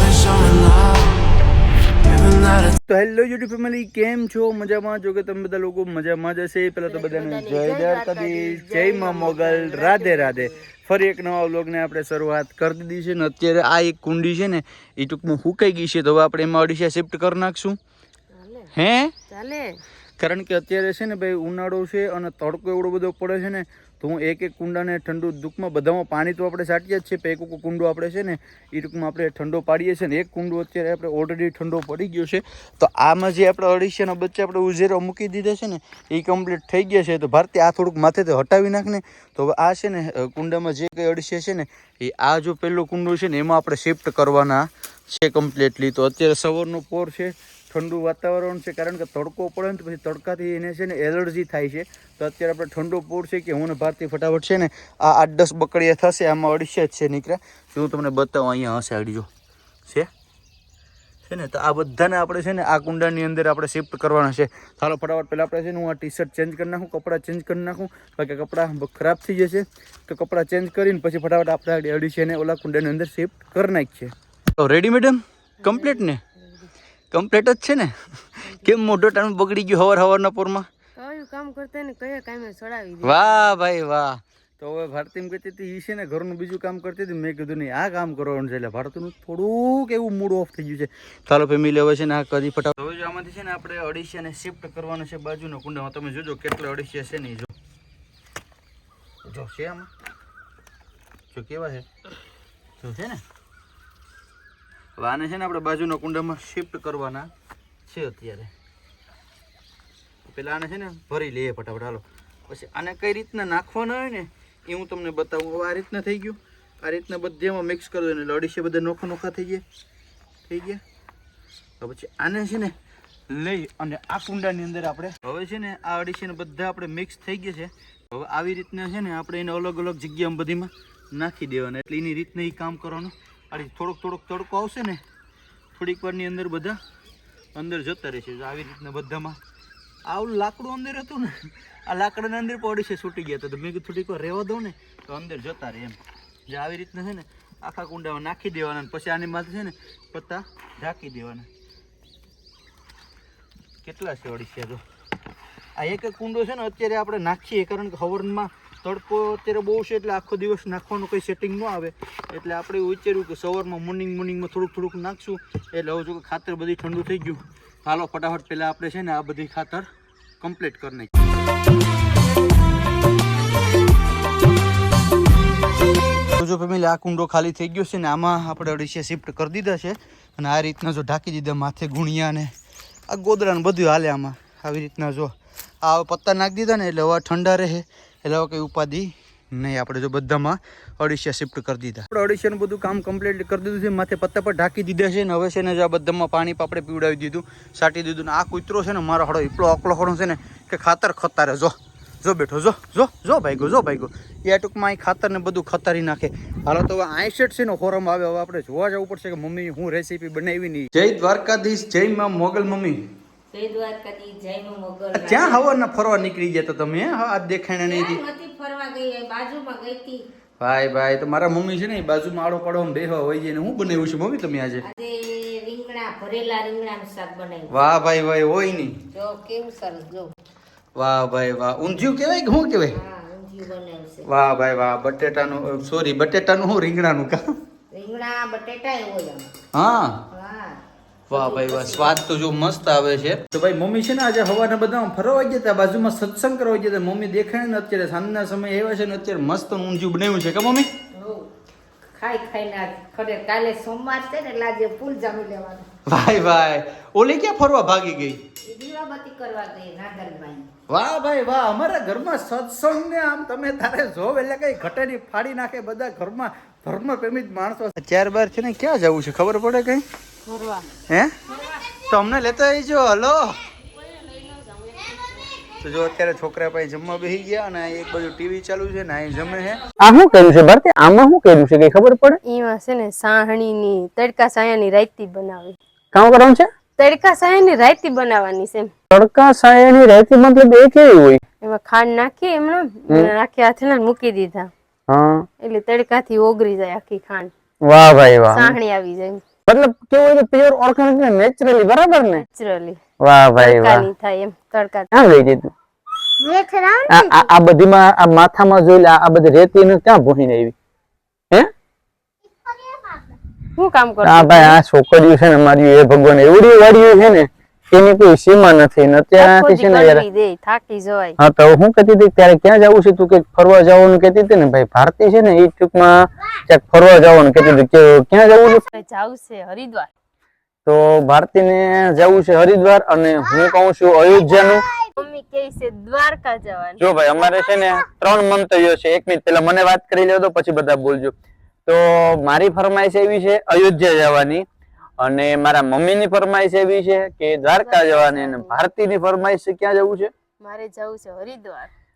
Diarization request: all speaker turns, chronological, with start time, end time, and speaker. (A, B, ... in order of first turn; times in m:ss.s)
0:02.4-0:17.8 A
0:06.9-0:10.6 B
0:18.3-0:18.7 B
0:18.7-0:19.1 A
0:19.3-0:19.8 B
0:20.2-0:59.3 A
1:01.2-1:16.2 A
1:15.6-1:16.1 B
1:17.1-1:20.7 A
1:21.0-1:23.6 B
1:23.0-1:37.5 A
1:39.2-1:39.9 A
1:41.3-1:41.9 A
1:42.8-1:43.2 A
1:45.0-1:47.3 A
1:47.9-1:48.5 A
1:50.2-1:59.6 A
2:00.5-2:00.8 A
2:01.8-2:02.7 A
2:03.3-2:15.0 A
2:15.8-2:16.8 A
2:17.6-2:19.4 A
2:20.1-2:31.5 A
2:33.8-2:34.8 A
2:35.8-2:49.9 A
2:50.4-2:51.2 A
2:56.4-3:02.5 A
3:03.1-3:33.0 A
3:33.5-3:35.6 C
3:35.2-3:38.2 A
3:37.8-3:40.3 C
3:40.6-3:44.8 A
3:44.9-3:47.7 C
3:47.7-3:49.0 A
3:49.1-3:50.3 C
3:51.0-3:53.0 A
3:52.9-3:54.3 C
3:54.2-3:57.4 A
3:57.9-3:59.5 C
3:59.7-4:00.2 A
4:00.3-4:02.1 C
4:01.3-4:10.9 A
4:11.1-4:11.5 C
4:12.2-4:15.9 C
4:16.1-4:18.4 A
4:18.6-4:20.7 C
4:20.9-4:30.0 A
4:30.5-4:30.8 B
4:31.1-4:31.4 A
4:31.9-4:33.6 A
4:33.9-4:35.6 B
4:35.8-4:39.8 A
4:40.0-4:42.4 D
4:42.5-4:45.8 B
4:46.1-4:46.7 D
4:47.0-4:48.9 B
4:49.1-4:51.4 D
4:51.6-4:54.7 B
4:55.1-4:55.4 D
4:55.6-4:57.5 B
4:57.9-4:58.6 D
4:58.5-4:59.4 B
4:59.7-5:02.4 D
5:02.3-5:03.0 B
5:03.2-5:04.1 D
5:03.6-5:05.1 B
5:05.1-5:05.7 D
5:06.4-5:07.5 B
5:07.1-5:10.7 D
5:13.8-5:14.8 B
5:14.2-5:20.2 D
5:15.6-5:16.3 A
5:19.4-5:21.4 B
5:21.4-5:26.1 D
5:22.3-5:24.1 A
5:25.1-5:26.1 A
5:26.7-5:28.8 D
5:26.7-5:27.4 A
5:28.6-5:30.1 B
5:30.9-5:34.8 D
5:30.9-5:33.4 A
5:35.2-5:37.0 B
5:37.0-5:41.3 A
5:37.4-5:38.7 D
5:39.8-5:40.7 D
5:41.9-5:44.3 D
5:41.9-5:44.6 A
5:45.2-5:47.6 A
5:45.4-5:48.6 D
5:47.7-5:48.8 B
5:48.4-5:50.3 A
5:50.6-5:51.9 B